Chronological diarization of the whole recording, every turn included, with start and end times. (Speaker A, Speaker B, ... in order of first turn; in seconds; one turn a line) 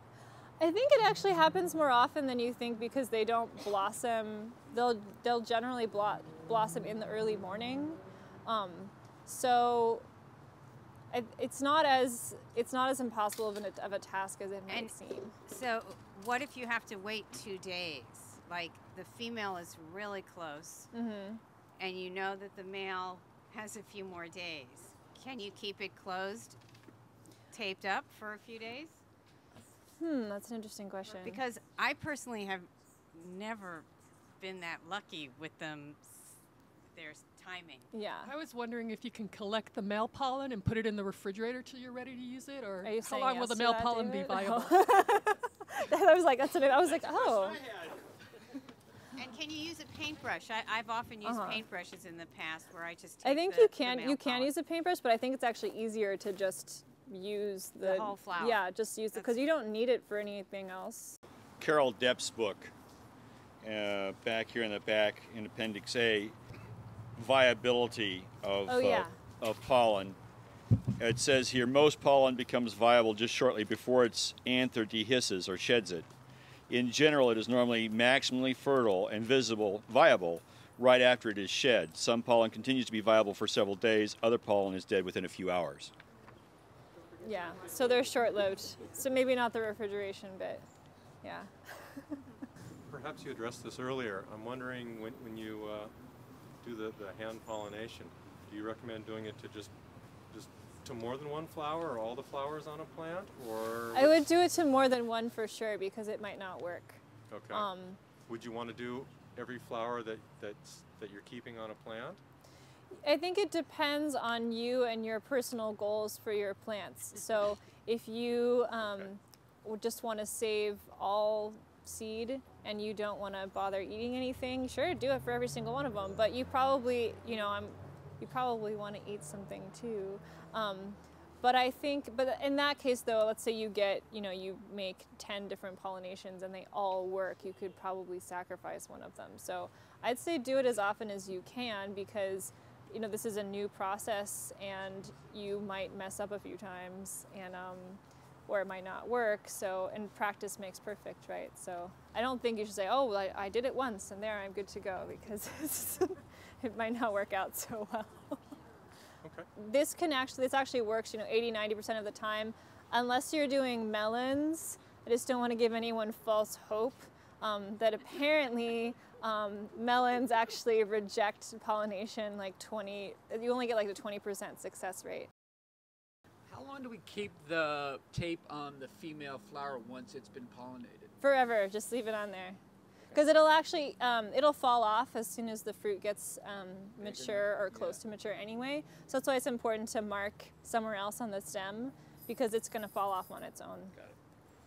Speaker A: 0.6-10.0
Speaker A: 11.1-15.3
Speaker B: 15.5-20.9
Speaker A: 20.9-21.4
Speaker B: 21.8-26.6
Speaker B: 27.5-29.0
Speaker A: 30.0-31.4
Speaker B: 31.1-33.9
Speaker B: 34.4-36.4
Speaker B: 36.9-37.9
Speaker A: 37.9-38.3
Speaker C: 38.2-44.8
Speaker A: 42.8-47.6
Speaker B: 49.1-54.5
Speaker A: 51.2-51.6
Speaker A: 53.2-61.2
Speaker B: 57.8-59.4
Speaker D: 61.6-62.7
Speaker D: 63.6-66.3
Speaker D: 67.2-70.2
Speaker A: 68.7-69.2
Speaker D: 71.0-76.1
Speaker D: 76.7-85.9
Speaker A: 87.2-90.6
Speaker A: 91.2-92.2
Speaker E: 92.9-95.9
Speaker E: 96.6-99.7
Speaker E: 100.3-104.2
Speaker A: 103.9-108.0
Speaker E: 107.3-107.7
Speaker E: 108.3-112.2
Speaker A: 113.0-158.4
Speaker A: 159.5-175.3
Speaker F: 176.5-181.1
Speaker A: 181.2-182.6
Speaker A: 183.1-193.9
Speaker F: 187.0-188.0